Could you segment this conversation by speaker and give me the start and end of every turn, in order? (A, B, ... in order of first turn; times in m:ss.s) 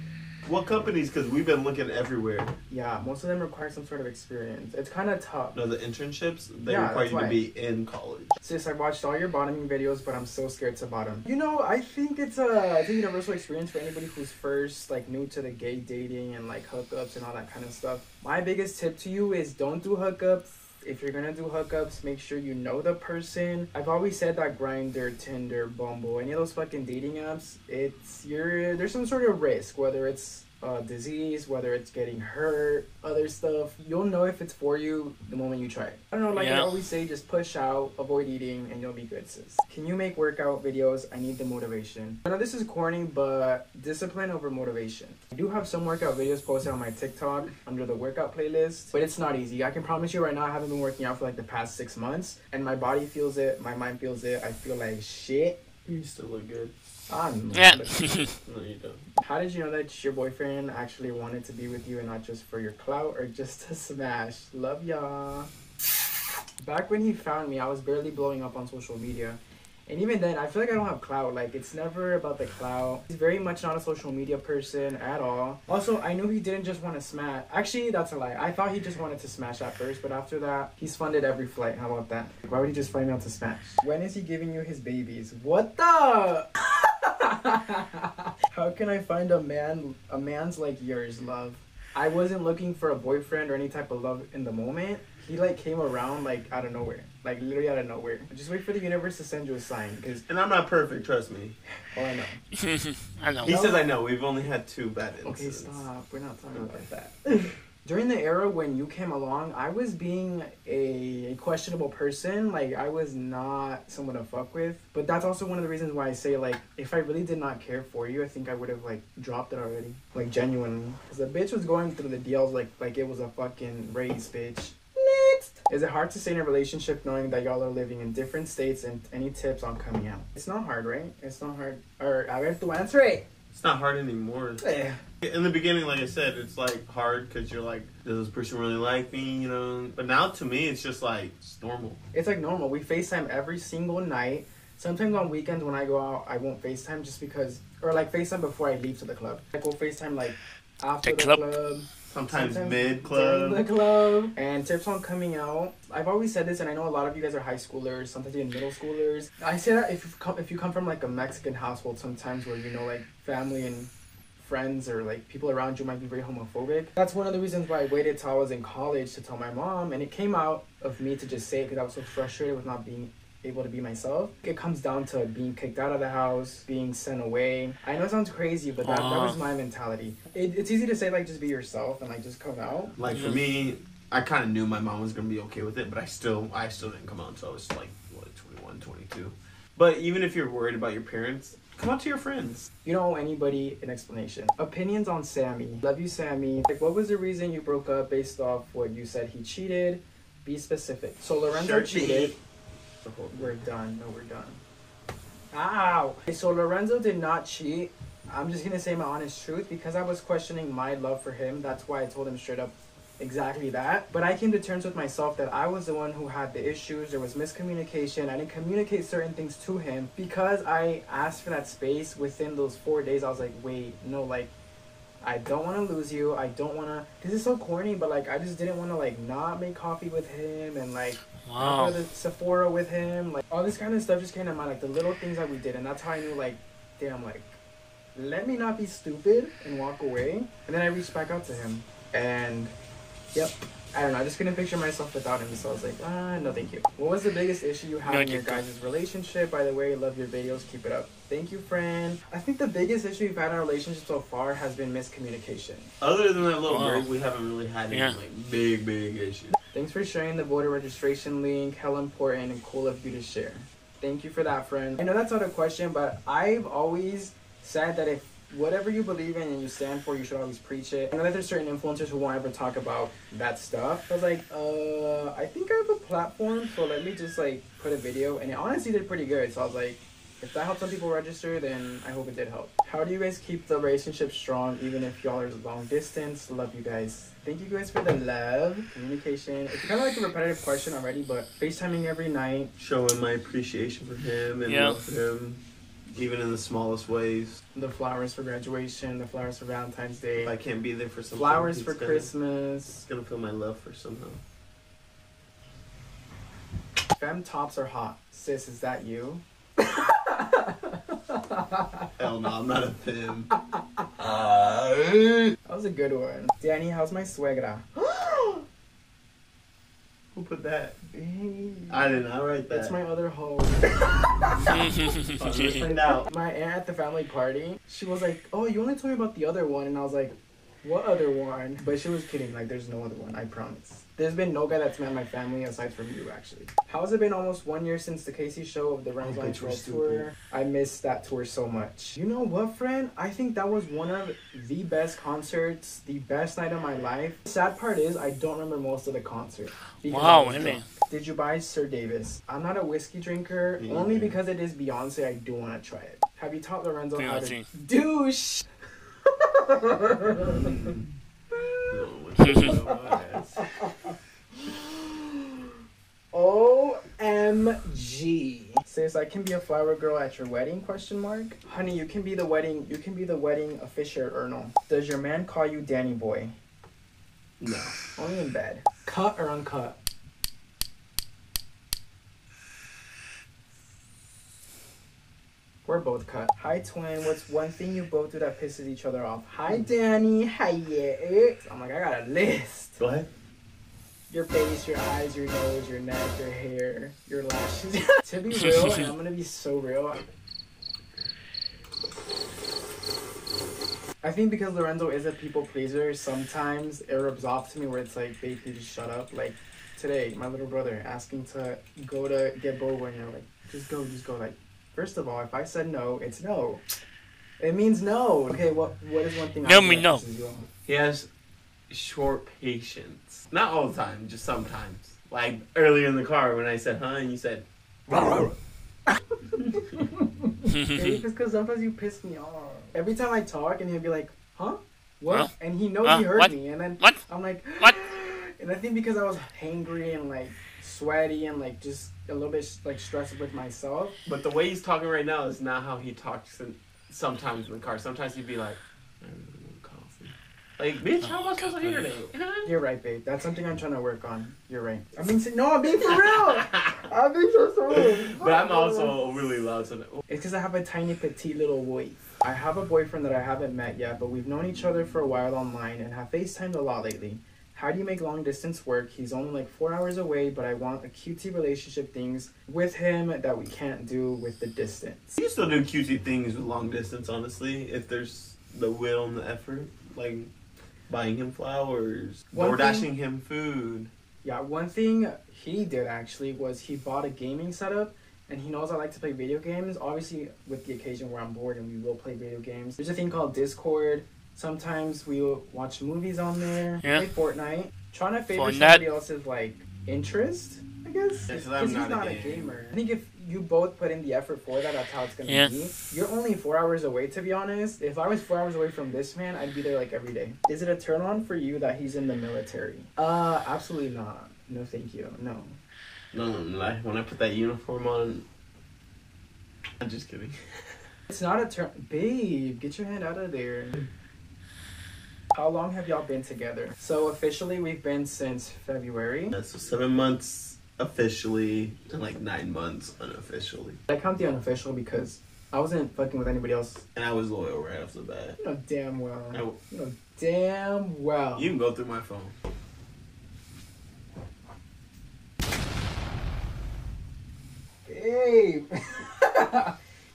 0:00.4-0:02.6 A
0:02.7-0:05.6 B
0:05.5-0:08.4 A
0:06.7-0:07.4 B
0:08.4-0:55.6 B
0:36.3-0:36.7 C
0:55.9-0:56.7 A
0:57.1-0:58.1 B
0:57.5-0:58.3 C
0:58.4-0:59.0 A
0:59.2-1:05.5 B
1:06.6-1:40.2 B
1:40.3-1:41.6 A
1:41.9-1:42.4 B
1:42.6-1:43.5 C
1:43.4-1:45.9 A
1:43.5-1:43.9 B
1:45.2-2:13.3 B
1:46.5-1:46.8 A
2:13.5-2:14.6 A
2:14.6-2:15.0 B
2:15.2-2:22.0 A
2:22.1-3:02.9 B
2:31.0-2:31.4 C
2:32.1-2:33.6 A
2:58.8-2:59.4 C
3:03.0-3:12.7 A
3:12.8-3:22.4 B
3:21.5-3:22.4 A
3:23.1-3:23.5 A
3:23.3-3:24.6 B
3:25.5-3:44.5 B
3:45.2-3:57.6 B
3:51.4-3:52.0 C
3:58.2-4:02.7 B
4:03.3-4:15.9 B
4:08.0-4:08.6 C
4:16.0-4:19.6 A
4:16.7-4:17.1 C
4:17.9-4:18.2 C
4:19.7-4:52.7 B
4:52.8-4:55.6 A
4:54.7-4:55.0 C
4:56.1-4:57.6 A
4:57.8-5:00.5 B
5:00.4-5:02.3 A
5:01.3-5:03.0 B
5:03.0-5:04.4 A
5:07.2-5:12.0 B
5:12.2-5:13.5 A
5:13.6-5:14.0 B
5:14.2-5:15.6 A
5:15.6-5:18.6 B
5:20.3-5:21.0 A
5:21.1-5:22.2 B
5:21.9-5:23.0 A
5:22.7-5:24.9 B
5:24.7-5:25.8 C
5:25.3-5:26.3 A
5:25.8-5:58.6 B
5:39.2-5:40.3 A
5:50.1-5:50.9 C
5:53.8-5:54.4 A
5:57.2-5:57.7 C
5:59.3-6:00.9 B
6:00.5-6:01.1 A
6:01.5-6:02.0 B
6:01.9-6:03.7 A
6:02.4-6:02.7 C
6:02.6-6:04.1 B
6:04.6-6:05.3 B
6:06.3-6:16.6 B
6:17.6-6:18.0 A
6:18.2-6:20.0 B
6:25.8-6:33.0 B
6:33.0-6:33.3 A
6:34.3-6:40.3 B
6:44.2-6:56.8 B
6:57.6-7:00.7 B
6:59.6-7:00.2 C
7:00.9-7:01.3 A
7:01.9-7:08.5 A
7:10.0-7:24.2 B
7:16.0-7:17.2 C
7:24.3-7:32.4 A
7:32.6-7:39.1 B
7:37.9-7:40.2 A
7:40.3-7:55.4 B
7:55.4-8:00.5 A
8:01.1-8:04.1 A
8:02.5-8:03.1 B
8:04.4-8:35.8 B
8:18.6-8:19.0 C
8:21.5-8:22.8 A
8:25.5-8:25.7 C
8:36.3-8:38.5 A
8:40.0-8:41.0 A
8:41.3-8:44.0 B
8:45.5-8:49.6 B
8:49.5-8:54.0 A
8:54.1-8:57.0 B
8:57.2-8:58.6 A
8:58.6-9:01.8 B
8:59.5-8:59.8 A
9:01.6-9:02.6 A
9:08.0-9:09.9 B